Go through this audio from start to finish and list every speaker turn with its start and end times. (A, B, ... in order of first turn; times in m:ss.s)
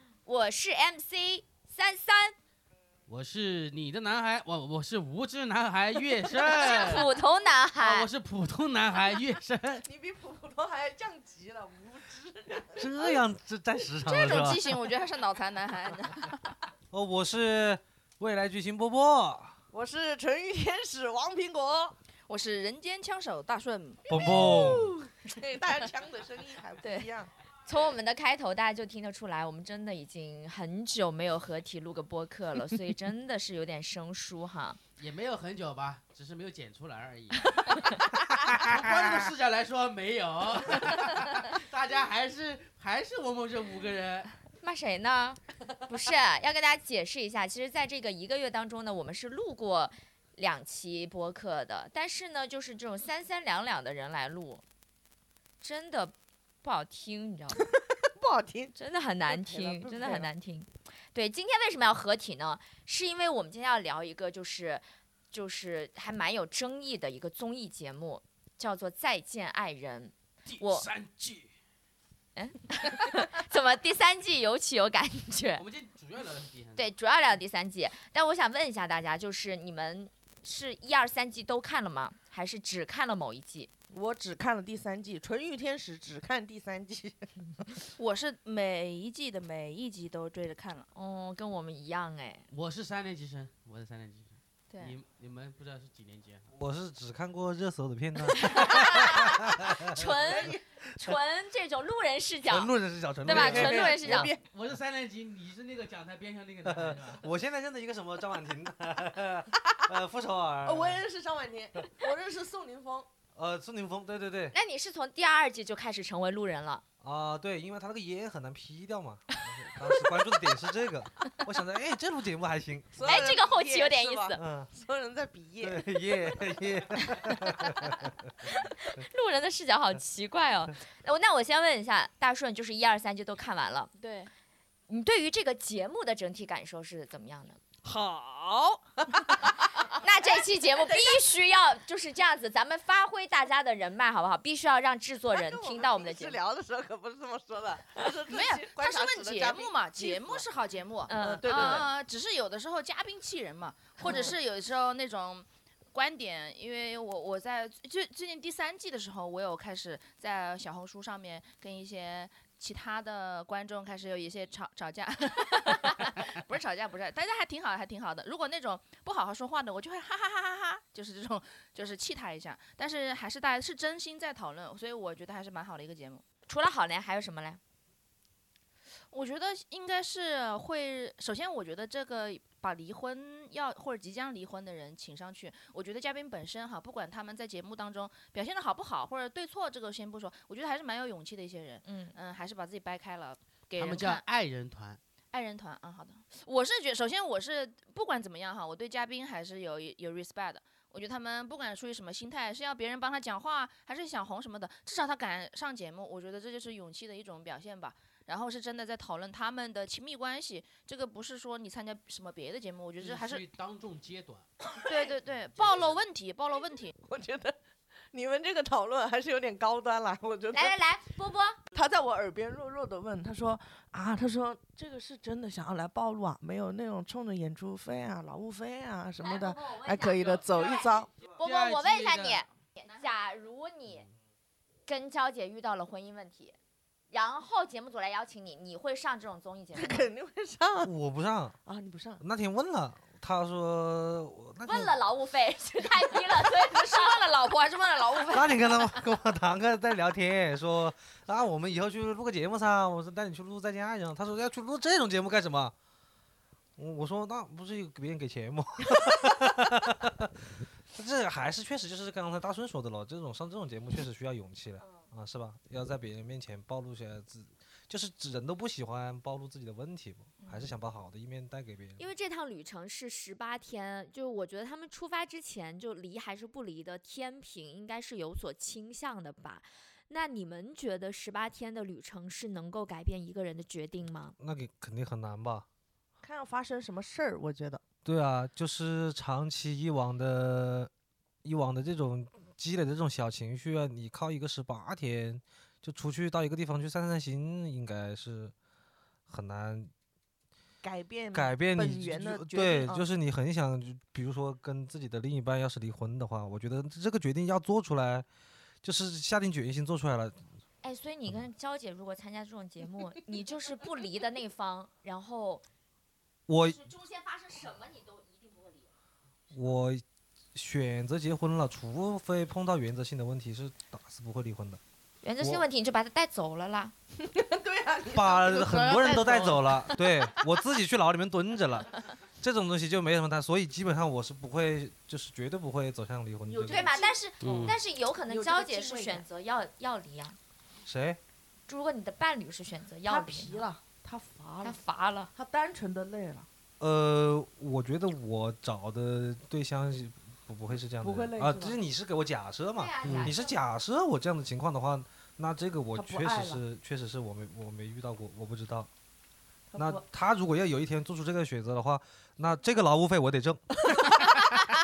0:00.2-0:02.3 A
0:03.1-0:07.1 B
0:06.3-0:08.1 A
0:07.8-0:09.8 B
0:09.8-0:12.9 C
0:12.8-0:14.6 D
0:14.0-0:16.5 E
0:16.9-0:19.6 D
0:19.7-0:21.9 C
0:22.3-0:24.1 E
0:24.1-0:24.9 D
0:24.2-0:27.3 C
0:26.8-0:27.1 A
0:27.6-0:34.8 A
0:35.0-0:44.3 B
0:44.6-0:54.6 A
0:55.6-0:57.7 A
0:58.0-1:00.3 C
0:58.7-1:10.9 A
1:10.4-1:11.5 B
1:12.4-1:15.6 A
1:15.6-1:16.9 B
1:16.8-1:23.7 A
1:23.9-1:27.8 C
1:27.9-1:30.9 E
1:30.9-1:32.5 A
1:32.5-1:36.4 B
1:36.5-1:40.0 D
1:38.4-1:44.3 A
1:40.2-1:40.6 C
1:42.5-1:44.3 D
1:43.3-1:44.4 C
1:44.1-1:47.2 B
1:46.6-1:51.0 D
1:50.6-1:53.1 C
1:53.3-1:54.5 D
1:54.5-1:56.8 A
1:57.0-2:03.0 D
2:02.9-2:05.9 C
2:03.0-2:04.4 A
2:04.4-2:04.7 D
2:05.6-2:08.2 D
2:08.4-2:13.9 A
2:14.0-2:14.3 E
2:14.9-2:17.6 A
2:17.8-2:18.8 E
2:19.1-2:19.5 C
2:20.0-2:26.4 A
2:20.9-2:21.2 C
2:25.3-2:30.4 C
2:28.3-2:56.2 E
2:31.1-2:31.9 A
2:31.2-2:31.9 C
2:34.0-2:34.3 C
2:34.0-2:34.4 A
2:56.5-2:57.6 A
2:59.1-3:14.2 E
3:11.8-3:12.1 A
3:13.8-3:15.0 B
3:15.3-3:33.4 E
3:33.0-3:34.5 B
3:34.7-3:34.9 C
3:34.8-3:36.9 E
3:37.0-3:37.6 C
3:38.1-3:40.8 C
3:40.5-3:41.6 A
3:41.7-3:51.1 C
3:49.2-3:54.1 A
3:51.3-3:52.4 B
3:54.8-3:56.6 A
3:57.1-4:00.1 A
3:59.7-4:00.9 C
4:00.8-4:01.6 D
4:01.6-4:02.2 C
4:02.2-4:05.0 D
4:04.6-4:07.2 A
4:06.6-4:09.0 E
4:08.3-4:15.7 D
4:16.8-4:32.0 D
4:24.8-4:25.0 A
4:30.4-4:30.7 A
4:32.0-4:44.4 A
4:44.4-4:45.6 D
4:46.2-4:47.8 C
4:48.0-4:50.9 D
4:51.4-4:58.5 D
4:59.3-4:59.9 D
5:00.8-5:03.0 C
5:01.3-5:08.2 D
5:08.8-5:10.4 D
5:10.8-5:15.6 A
5:16.5-5:16.8 D
5:16.6-5:18.9 A
5:19.5-5:24.8 D
5:25.2-5:26.9 A
5:27.2-5:30.2 C
5:28.1-5:36.9 D
5:36.5-5:37.7 C
5:36.6-5:40.4 A
5:37.4-5:37.8 B
5:38.3-5:39.2 C
5:40.8-5:41.2 D
5:41.7-5:43.7 A
5:43.0-5:44.8 C
5:44.6-5:45.3 A
5:45.3-5:46.5 C
5:46.8-5:58.9 D
5:51.0-5:51.8 C
5:52.7-5:53.6 A
5:53.0-5:53.3 C
5:55.9-5:56.6 C
5:59.7-6:00.0 C
5:59.8-6:03.8 D
6:03.8-6:04.3 C